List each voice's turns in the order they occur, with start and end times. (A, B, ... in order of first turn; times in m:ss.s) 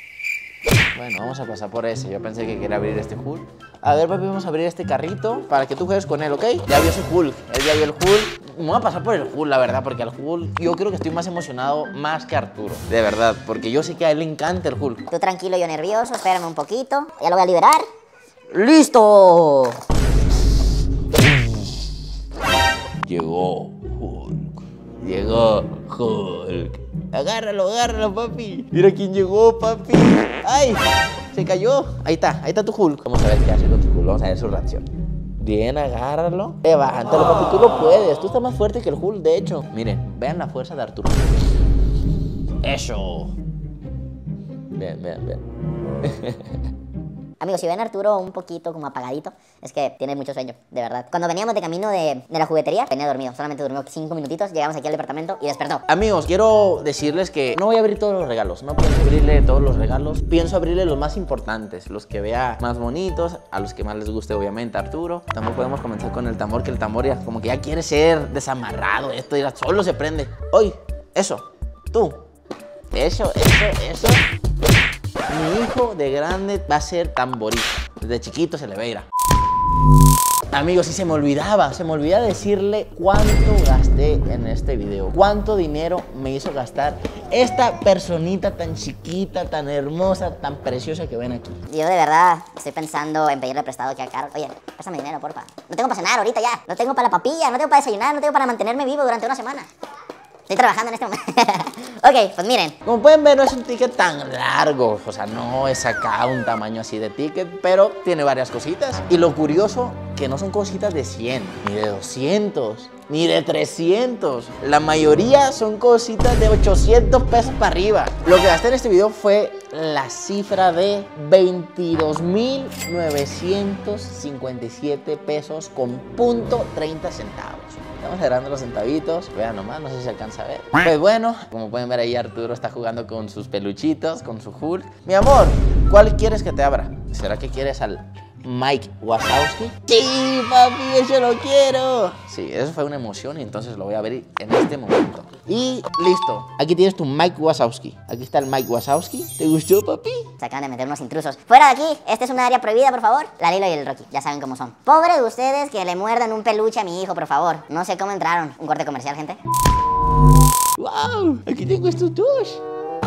0:00.9-0:15.1 A
0:15.1-0:17.8 B
0:18.5-0:19.8 B
0:21.2-0:21.8 A
0:23.0-0:34.8 A
0:35.4-0:41.2 A
0:42.6-0:43.3 A
0:44.7-0:45.4 A
0:46.0-0:46.6 A
0:47.4-0:55.8 B
0:55.9-1:12.2 A
1:12.9-1:14.2 A
1:15.3-1:19.1 A
1:20.5-1:31.6 A
1:31.7-1:39.7 B
1:40.5-1:42.8 B
1:42.8-2:30.3 A
2:30.4-2:39.4 B
2:40.8-2:42.6 A